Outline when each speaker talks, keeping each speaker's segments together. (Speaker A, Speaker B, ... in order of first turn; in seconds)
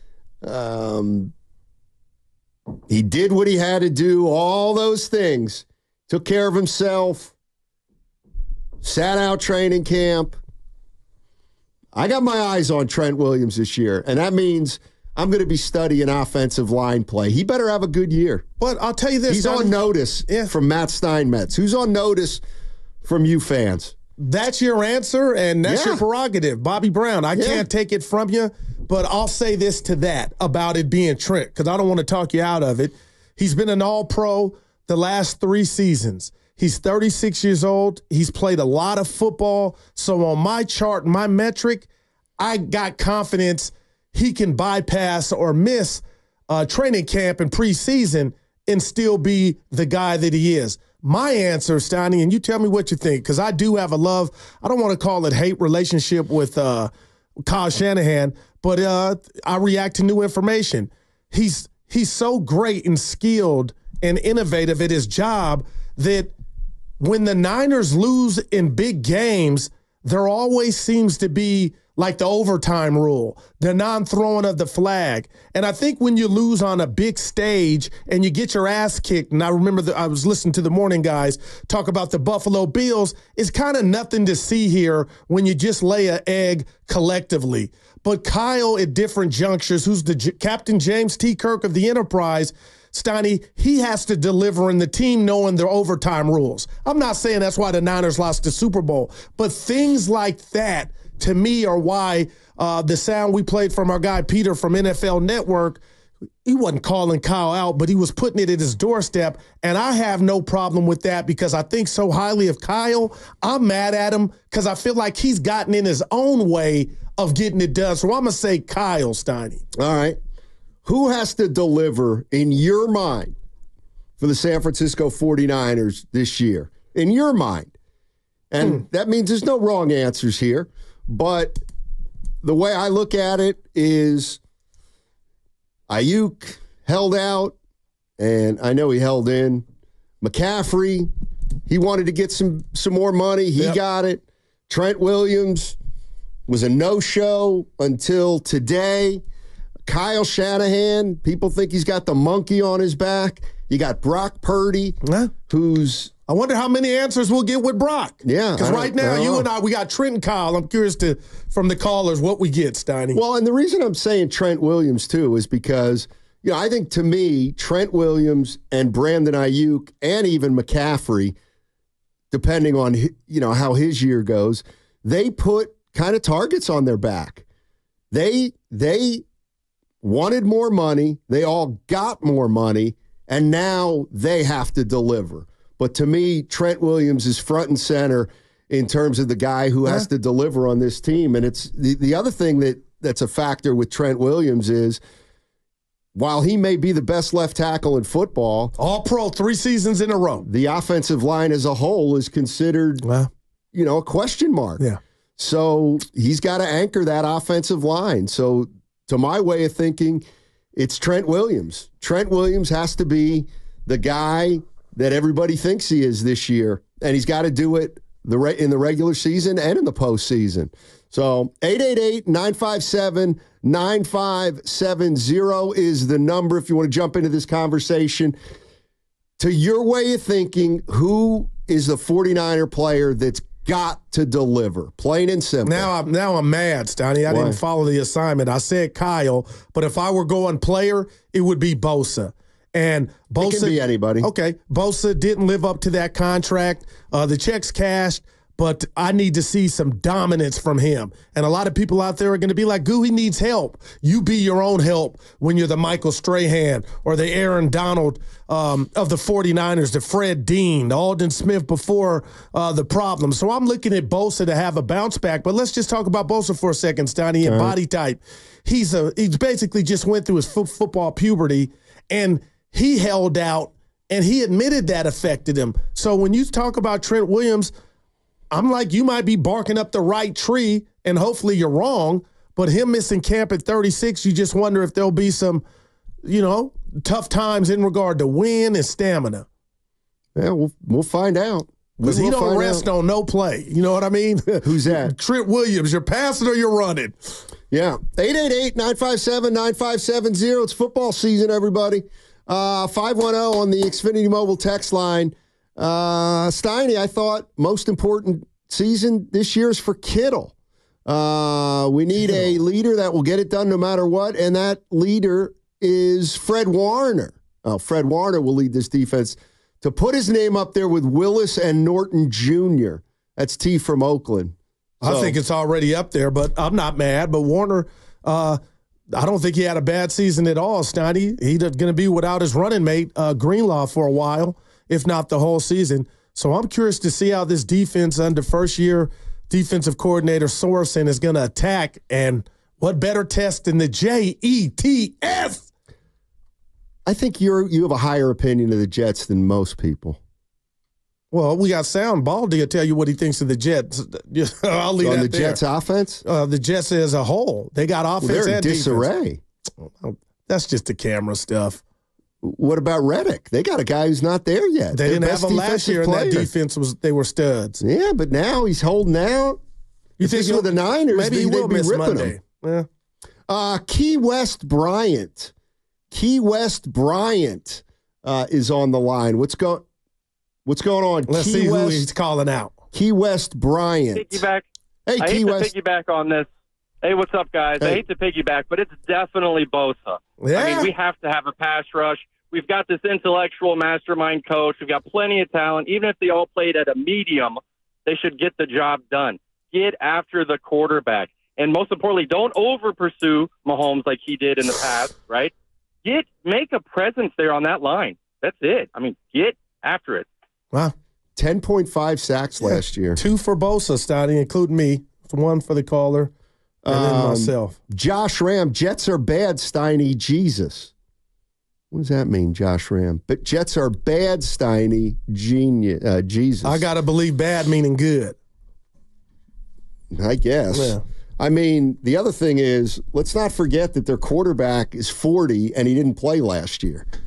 Speaker A: 0.4-1.3, 2.9-7.3, 8.8-10.4, 11.9-18.4, 19.3-22.4, 23.0-23.9, 25.6-26.0, 27.3-27.6, 119.8-120.2, 120.8-123.3, 124.2-127.7, 128.5-131.6, 132.4-134.4, 135.9-137.5, 138.2-139.6, 140.2-141.1, 141.7-145.8, 146.5-149.2, 149.9-156.1, 158.2-159.5, 163.1-171.3, 172.3-177.4, 178.1-179.2, 180.0-195.0, 196.1-198.7, 200.4-203.1, 203.7-204.8, 205.4-228.3, 229.4-235.9, 237.3-237.6, 243.4-244.3, 267.4-267.8, 290.4-292.9, 294.6-295.1, 297.7-310.5, 311.1-325.4, 347.1-350.2, 355.0-356.2, 358.2-359.4, 362.4-366.5, 367.8-369.6, 370.2-372.3, 373.5-375.5, 376.1-379.9, 380.6-382.0, 382.9-384.4, 385.1-385.7, 411.4-413.2, 416.8-420.9, 421.9-426.8, 430.1-437.1
Speaker B: 18.6-20.5, 24.2-41.9, 42.4-56.9, 57.5-66.3, 67.0-105.8, 106.4-119.6, 155.0-155.3, 156.3-163.2, 198.8-200.4, 203.0-203.3, 235.7-277.7, 278.5-285.6, 286.2-289.4, 292.0-297.4, 312.2-312.5, 325.0-328.6, 329.1-345.7, 351.3-355.6, 356.2-359.1, 359.8-361.8, 364.9-367.8, 370.2-372.9, 381.3-382.8, 390.4-390.9, 412.6-416.3, 416.9-417.8, 426.6-428.4, 430.7-431.0
Speaker C: 384.1-384.6, 385.2-386.5, 387.0-405.5, 406.0-410.2